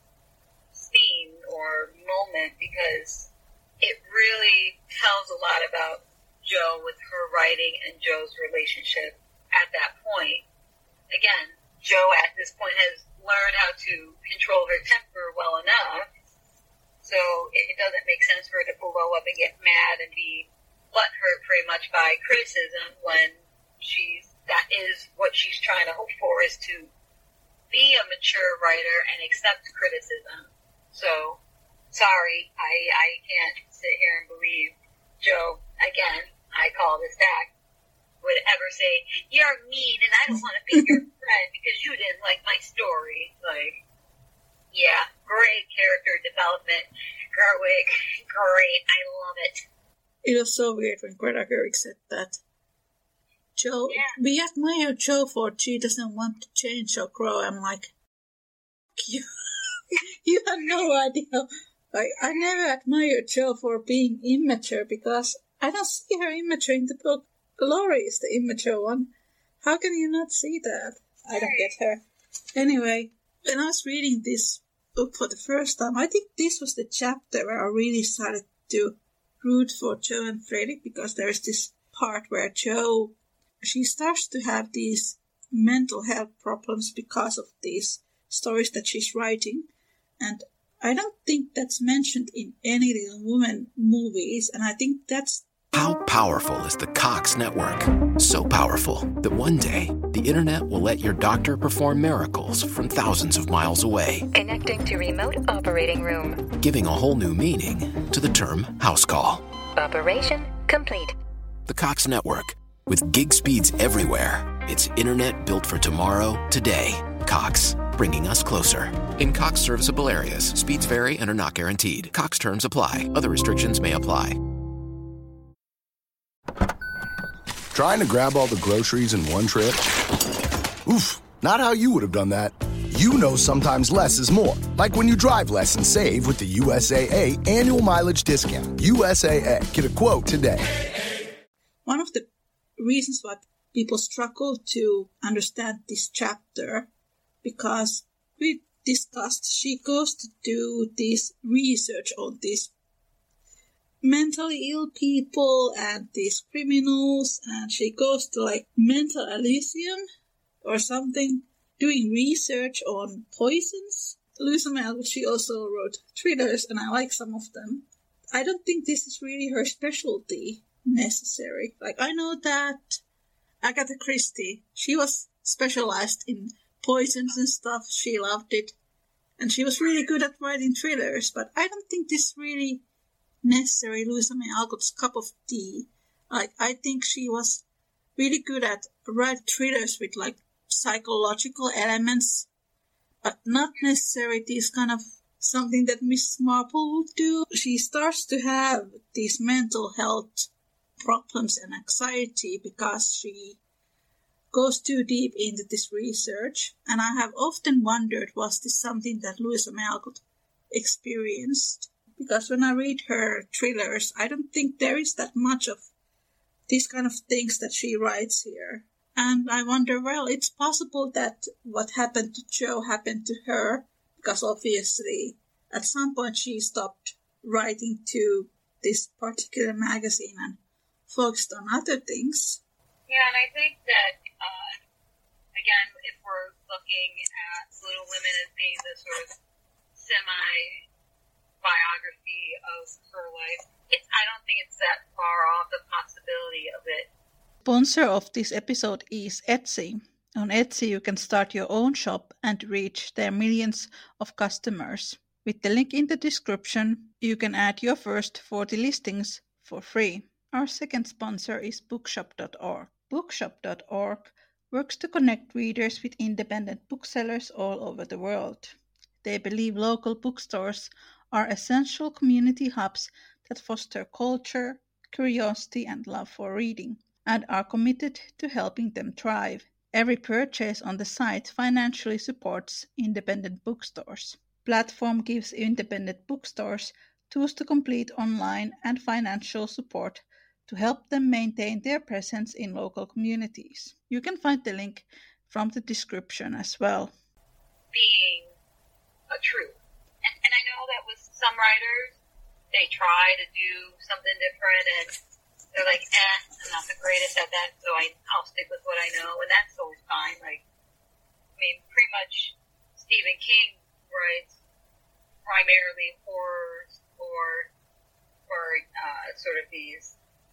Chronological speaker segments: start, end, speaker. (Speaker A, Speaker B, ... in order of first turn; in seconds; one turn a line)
Speaker A: 0.7-3.3
Speaker A: 3.8-10.4
Speaker A: 11.1-16.1
Speaker A: 17.0-26.9
Speaker A: 27.7-31.4
Speaker A: 31.9-37.5
Speaker A: 38.2-43.8
Speaker A: 44.7-49.6
Speaker B: 50.2-52.4
Speaker B: 53.5-57.9
Speaker A: 53.9-54.2
Speaker B: 59.0-59.3
Speaker B: 59.9-69.1
Speaker B: 69.6-72.0
Speaker A: 71.3-71.7
Speaker B: 72.5-95.5
Speaker C: 95.7-104.3
Speaker D: 104.3-106.5
Speaker C: 106.5-109.4
Speaker D: 109.7-111.2
Speaker C: 111.7-124.4
Speaker E: 127.7-129.8
Speaker E: 130.8-140.7
Speaker B: 141.8-146.9
Speaker B: 147.4-152.7
Speaker B: 154.0-160.0
Speaker B: 160.6-173.0
Speaker B: 173.6-178.8
Speaker B: 179.4-182.8
Speaker B: 183.4-187.6
Speaker B: 188.2-192.5
Speaker B: 193.2-203.6
Speaker B: 204.5-215.9
Speaker B: 216.7-232.6
Speaker A: 233.1-234.7
Speaker A: 235.5-239.3
Speaker A: 239.9-240.8
Speaker A: 241.6-247.1
Speaker B: 247.6-297.1
Speaker A: 297.9-298.5
Speaker A: 299.3-302.2
Speaker A: 302.7-305.1
Speaker A: 305.7-310.6
Speaker A: 311.6-314.6
Speaker A: 315.4-317.7
Speaker A: 318.5-320.1